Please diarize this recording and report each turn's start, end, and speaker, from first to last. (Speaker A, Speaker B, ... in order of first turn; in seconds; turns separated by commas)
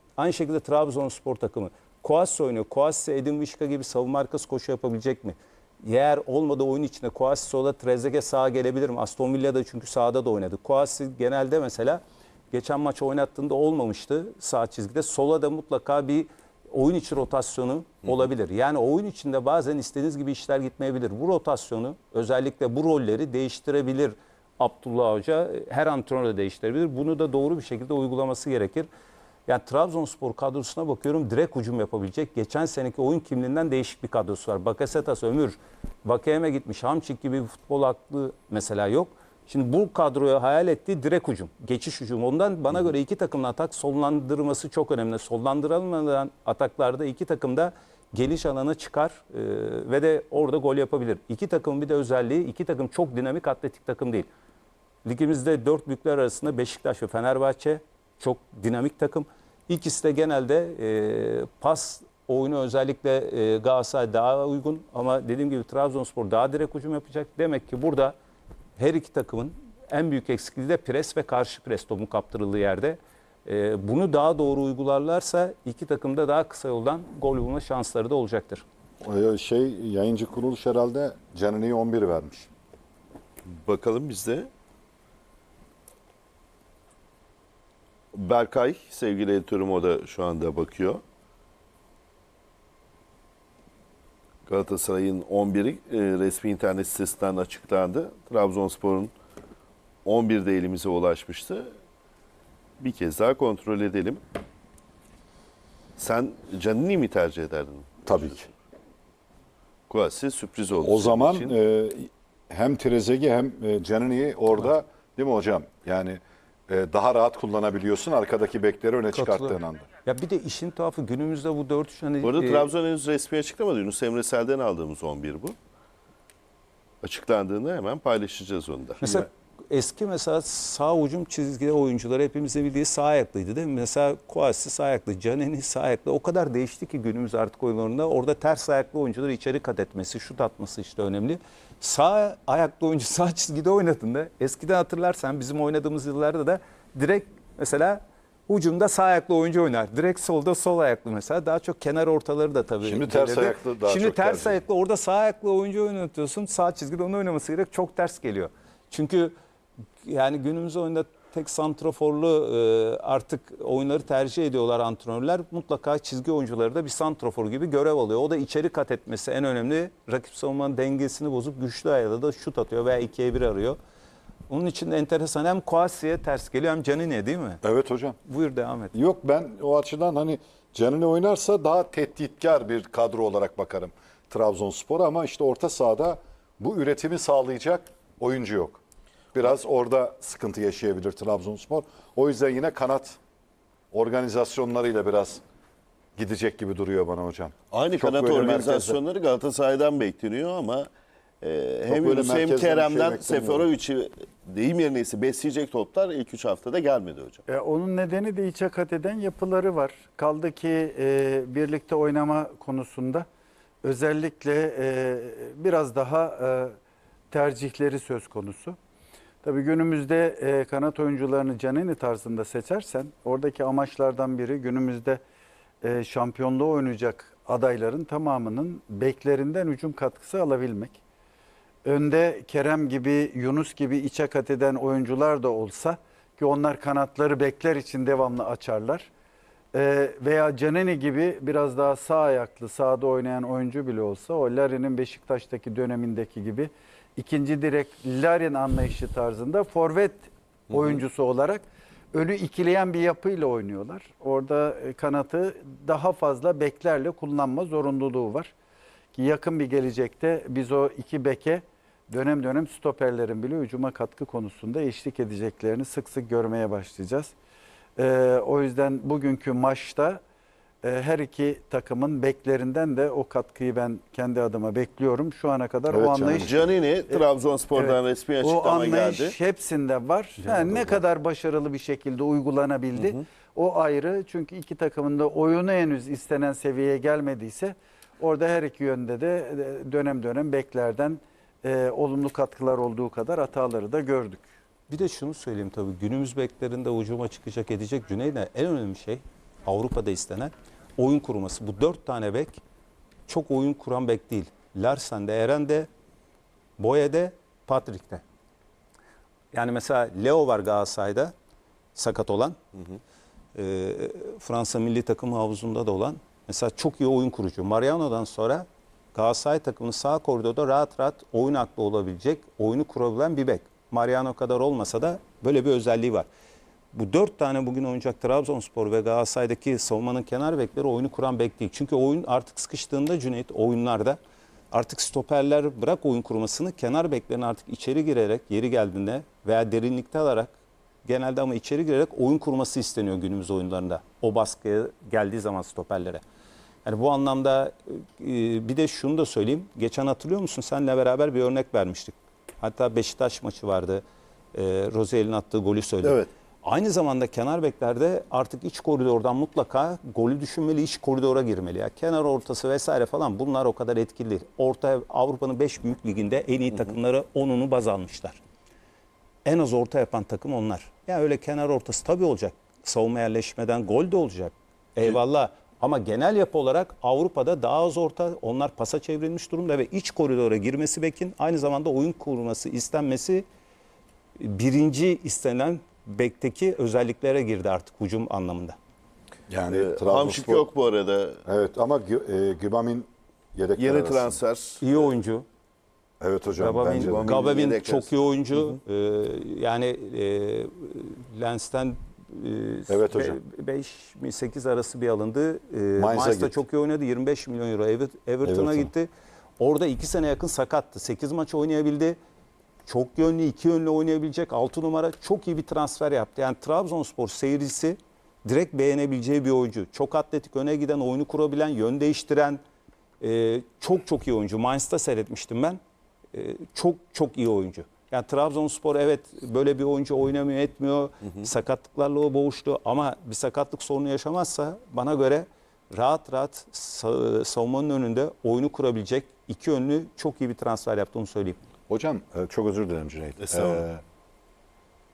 Speaker A: 0.2-28.9, Speaker A: 29.5-54.3, Speaker A: 55.0-68.2, Speaker A: 68.8-78.6, Speaker B: 79.0-82.5, Speaker C: 83.5-84.5, Speaker C: 88.1-91.0, Speaker C: 94.5-99.1, Speaker C: 100.0-101.7, Speaker C: 102.8-104.2, Speaker C: 106.0-108.0, Speaker B: 108.0-108.5, Speaker C: 109.9-111.5, Speaker B: 110.8-119.9, Speaker A: 119.1-122.7, Speaker C: 122.2-125.5, Speaker C: 127.0-129.2, Speaker A: 129.0-159.3, Speaker B: 152.8-154.6, Speaker A: 160.0-173.8, Speaker A: 174.5-177.6, Speaker B: 177.6-178.2, Speaker A: 178.3-178.9, Speaker B: 178.9-188.8, Speaker B: 189.3-193.2, Speaker B: 193.9-195.4, Speaker B: 196.2-199.0, Speaker C: 197.7-200.9, Speaker C: 201.4-207.4, Speaker B: 201.9-203.7, Speaker D: 207.5-213.3, Speaker D: 213.8-216.8, Speaker D: 217.3-218.8, Speaker D: 219.4-225.2, Speaker D: 225.8-231.0, Speaker D: 231.8-239.1, Speaker D: 239.7-258.5, Speaker D: 259.1-267.3, Speaker D: 268.0-270.2, Speaker D: 270.8-294.5, Speaker B: 275.9-276.6, Speaker C: 276.1-279.4, Speaker A: 294.9-302.6, Speaker A: 303.3-305.9, Speaker A: 306.8-308.2, Speaker A: 309.5-311.3, Speaker A: 312.0-312.6, Speaker A: 313.6-326.3, Speaker A: 326.9-334.2, Speaker A: 334.7-340.5, Speaker A: 341.1-346.2, Speaker A: 346.9-354.0, Speaker A: 354.5-368.4, Speaker C: 356.0-356.3, Speaker A: 369.5-383.4, Speaker A: 384.4-388.8, Speaker B: 389.5-390.7, Speaker C: 389.7-391.4, Speaker B: 391.4-394.4, Speaker C: 393.8-395.1, Speaker A: 394.8-395.4, Speaker B: 396.2-397.3, Speaker A: 396.6-412.2, Speaker C: 397.0-398.1, Speaker B: 402.9-403.4, Speaker B: 406.0-406.6, Speaker B: 408.4-408.9, Speaker A: 412.9-422.6, Speaker A: 423.2-425.8, Speaker A: 426.3-441.6, Speaker B: 441.9-444.0, Speaker C: 443.4-443.8